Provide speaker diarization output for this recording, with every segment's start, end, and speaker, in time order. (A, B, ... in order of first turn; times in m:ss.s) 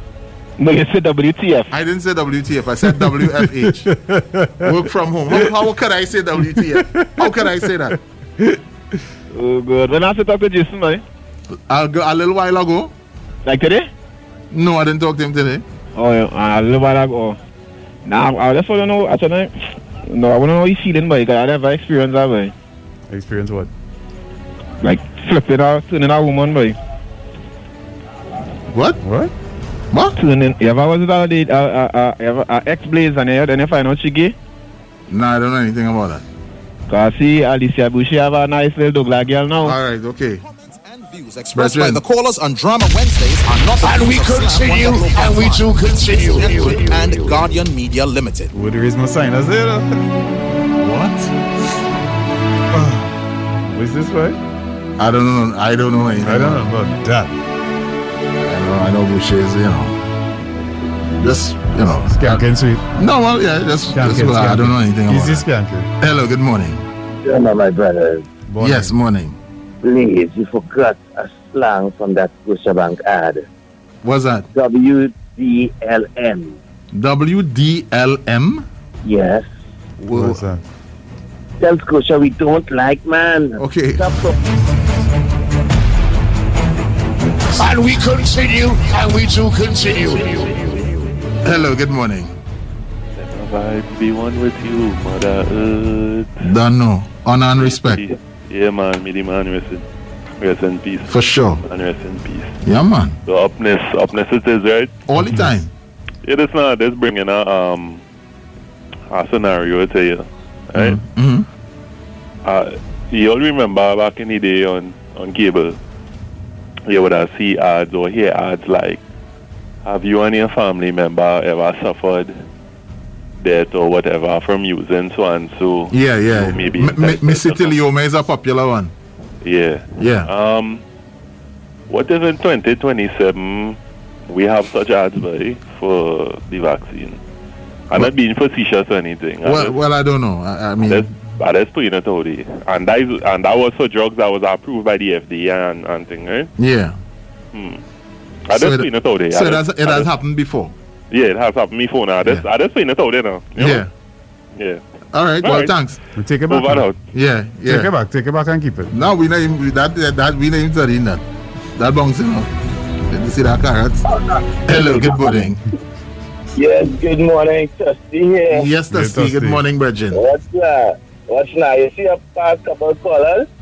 0:00.6-0:01.7 A
0:01.7-0:03.9 B
0:02.9-0:04.7 C
0:04.6-0:08.0 B
0:06.9-0:07.7 C
0:09.3-0:11.0 A
0:11.7-0:12.9 B
0:13.4-0:13.9 A
0:14.5-0:15.6 B
0:16.0-0:17.4 A
0:18.1-0:19.5 A
0:20.1-0:22.5 A
0:23.1-0:23.7 C
0:24.8-0:26.8 A
0:28.7-0:29.0 B
0:29.0-0:29.3 C
0:30.2-0:34.4 A
0:35.1-0:36.2 B
0:36.9-0:39.8 A
0:39.6-0:40.4 B
0:40.4-0:48.5 D
0:41.6-0:42.0 B
0:43.8-0:47.4 E
0:48.5-0:50.0 C
0:50.8-0:51.3 B
0:52.7-0:53.1 C
0:53.7-0:54.4 C
0:55.0-0:56.6 B
0:56.2-0:57.3 C
0:58.4-1:00.0 B
1:01.2-1:02.4 B
1:02.0-1:03.0 C
1:03.0-1:05.4 B
1:03.9-1:05.9 C
1:06.0-1:06.8 B
1:07.2-1:08.2 F
1:08.5-1:08.9 C
1:08.6-1:09.4 B
1:09.8-1:13.5 F
1:14.0-1:14.5 B
1:14.5-1:16.6 F
1:16.9-1:18.7 B
1:19.0-1:19.5 F
1:20.0-1:20.4 B
1:20.1-1:20.6 C
1:21.6-1:24.4 F
1:23.6-1:24.0 B
1:27.5-1:30.7 E
1:31.4-1:32.4 B
1:33.2-1:36.4 G
1:36.4-1:38.1 B
1:37.6-1:39.8 G
1:40.4-1:42.6 G
1:41.1-1:41.6 B
1:42.6-1:43.2 B
1:43.3-1:45.0 G
1:45.1-1:45.7 B
1:45.3-1:45.5 C
1:46.2-1:48.0 G
1:49.1-1:51.0 G
1:50.8-1:51.5 B
1:52.4-1:55.8 G
1:56.9-1:59.0 G
1:59.8-2:02.4 G
2:03.4-2:07.8 G
2:05.9-2:08.9 B
2:09.4-2:10.8 G
2:10.0-2:10.3 B
2:11.9-2:17.2 G
2:17.9-2:19.8 G
2:19.4-2:21.1 B
2:20.8-2:26.5 G
2:26.6-2:27.0 B
2:27.5-2:27.8 G
2:28.5-2:30.1 G
2:28.5-2:30.7 B
2:31.1-2:33.9 G
2:33.6-2:33.9 B
2:35.1-2:36.0 B
2:35.4-2:35.8 G
2:36.2-2:36.8 C
2:36.5-2:37.0 G
2:37.1-2:37.9 B
2:37.7-2:38.9 C
2:38.9-2:41.2 B
2:41.8-2:42.5 B
2:43.1-2:44.0 B
2:44.7-2:45.6 B
2:46.6-2:48.5 H
2:48.5-2:50.2 B
2:48.9-2:49.6 C
2:50.2-2:53.4 H